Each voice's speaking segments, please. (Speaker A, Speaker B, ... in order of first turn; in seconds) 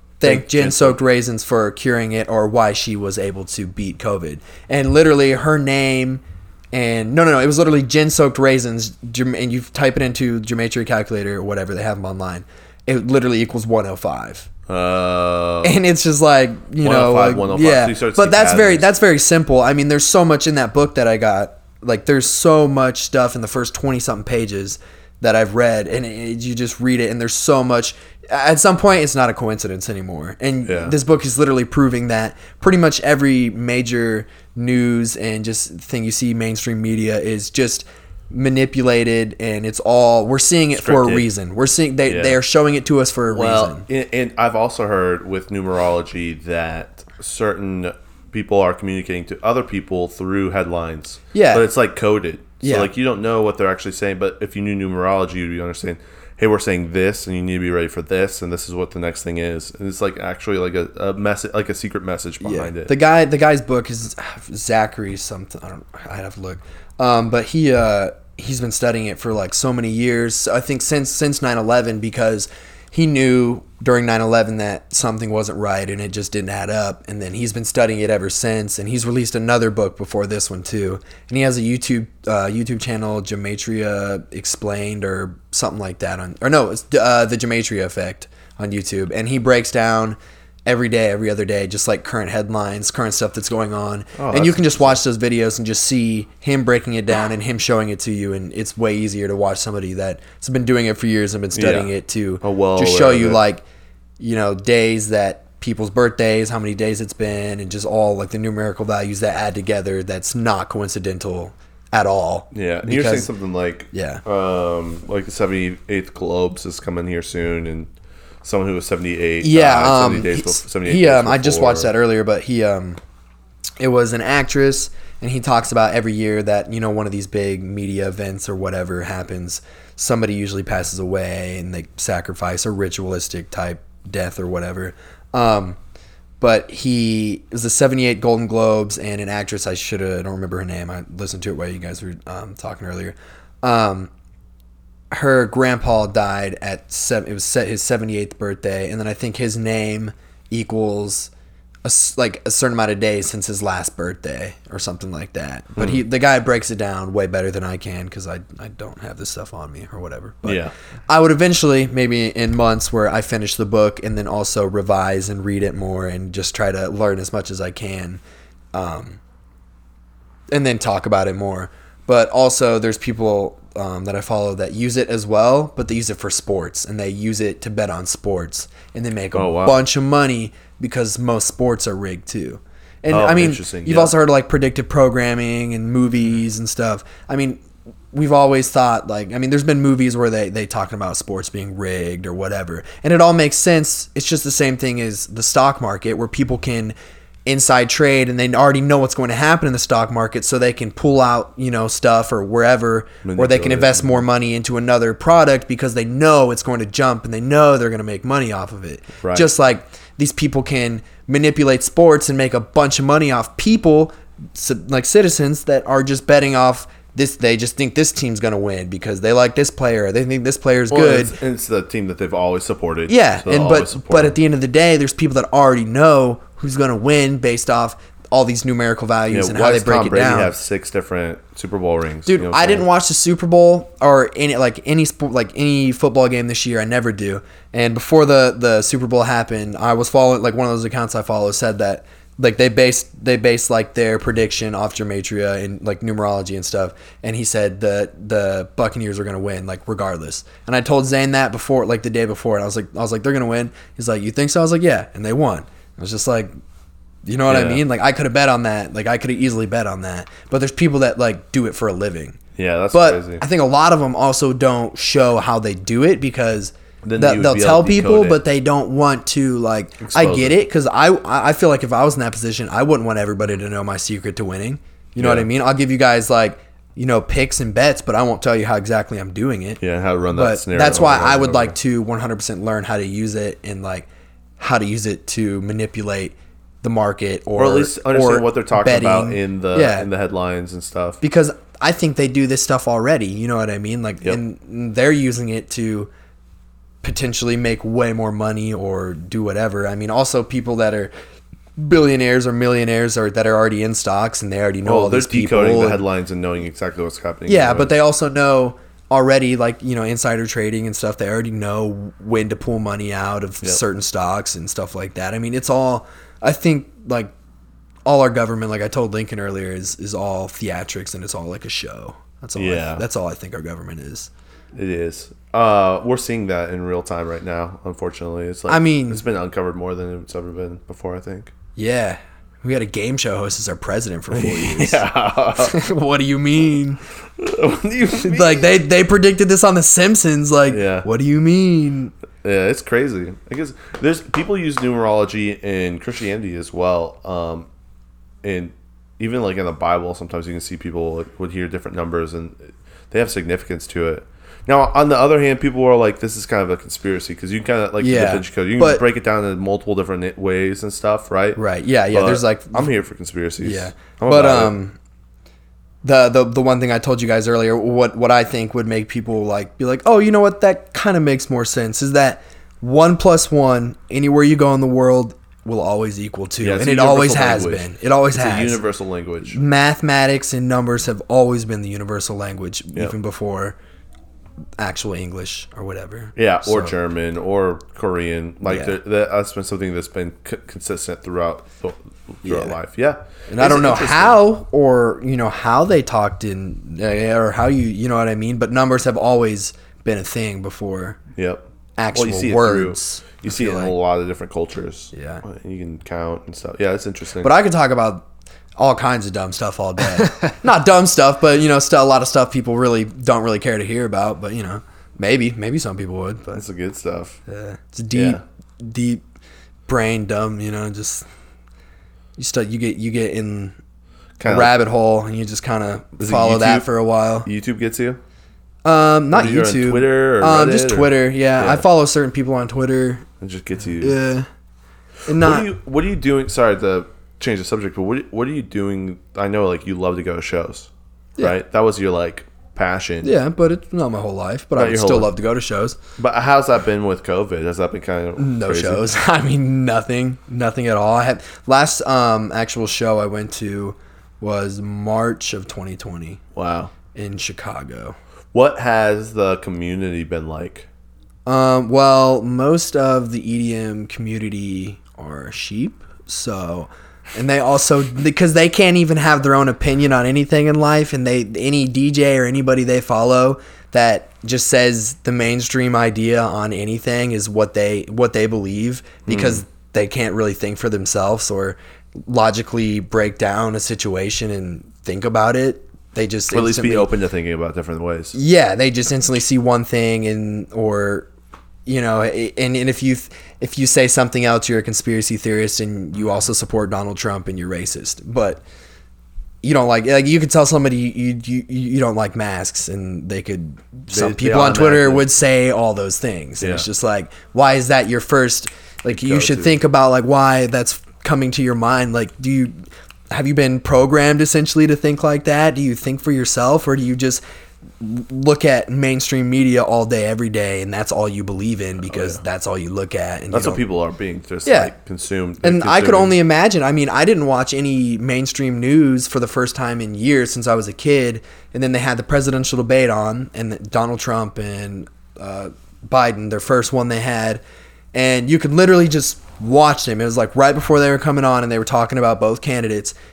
Speaker A: 0.2-14.5, 15.6-43.9, 51.3-51.7, 52.6-52.9, 62.4-103.6, 104.2-113.3, 113.9-114.2, 119.4-123.0, 123.8-135.8, 136.4-144.1, 145.1-151.3, 151.8-168.2, 168.7-169.2, 170.5-187.6, 188.1-196.9, 197.5-221.4, 223.1-230.5, 232.3-256.5, 257.2-262.4, 262.9-279.8, 280.3-284.1, 284.6-290.1, 291.2-296.1, 297.0-301.1, 301.8-306.0, 307.5-317.3, 318.1-324.3, 328.7-329.2, 331.8-335.0, 335.6-337.0, 338.2-342.1, 358.0-359.0, 361.6-362.9, 363.6-365.0, 366.0-378.8, 379.5-383.8, 384.8-386.9, 388.6-389.0, 392.4-392.8, 393.5-401.2, 402.0-403.9, 405.1-405.4, 407.4-408.3, 408.8-416.6, 417.5-419.2, 419.9-421.3, 422.4-423.8, 424.4-427.5, 428.9-433.3, 434.0-434.5, 435.3-435.7, 443.2-446.0, 448.4-456.4, 457.1-458.2, 461.5-487.1, 488.3-491.3, 491.9-498.6, 499.6-517.4, 518.0-523.8, 524.6-524.9, 525.6-537.6, 538.1-543.1
Speaker B: 0.2-1.0, 14.7-15.8, 16.8-18.9, 30.6-31.0, 40.8-41.3, 42.1-42.4, 43.3-62.9, 94.2-95.0, 101.5-101.9, 102.4-103.4, 112.5-117.9, 118.4-121.9, 160.4-160.7, 179.3-179.8, 183.1-184.1, 203.2-204.2, 209.2-209.5, 220.9-224.4, 229.3-232.8, 257.5-257.8, 262.6-263.4, 267.0-268.4, 270.0-270.6, 275.2-275.5, 279.8-281.8, 287.6-291.2, 304.9-307.9, 322.6-323.0, 324.8-331.5, 334.3-335.8, 337.4-338.7, 340.7-341.1, 342.4-347.7, 348.4-364.8, 376.6-379.6, 386.4-394.4, 401.4-407.5, 416.5-417.4, 418.1-418.4, 424.4-424.7, 426.2-426.9, 427.4-428.2, 429.3-431.9, 433.4-434.2, 435.3-443.3, 444.8-445.3, 446.2-449.1, 456.6-456.9, 458.5-460.9, 479.3-479.6, 486.5-488.4, 504.1-505.3, 506.6-506.9, 509.1-509.8, 522.1-522.4, 523.5-526.4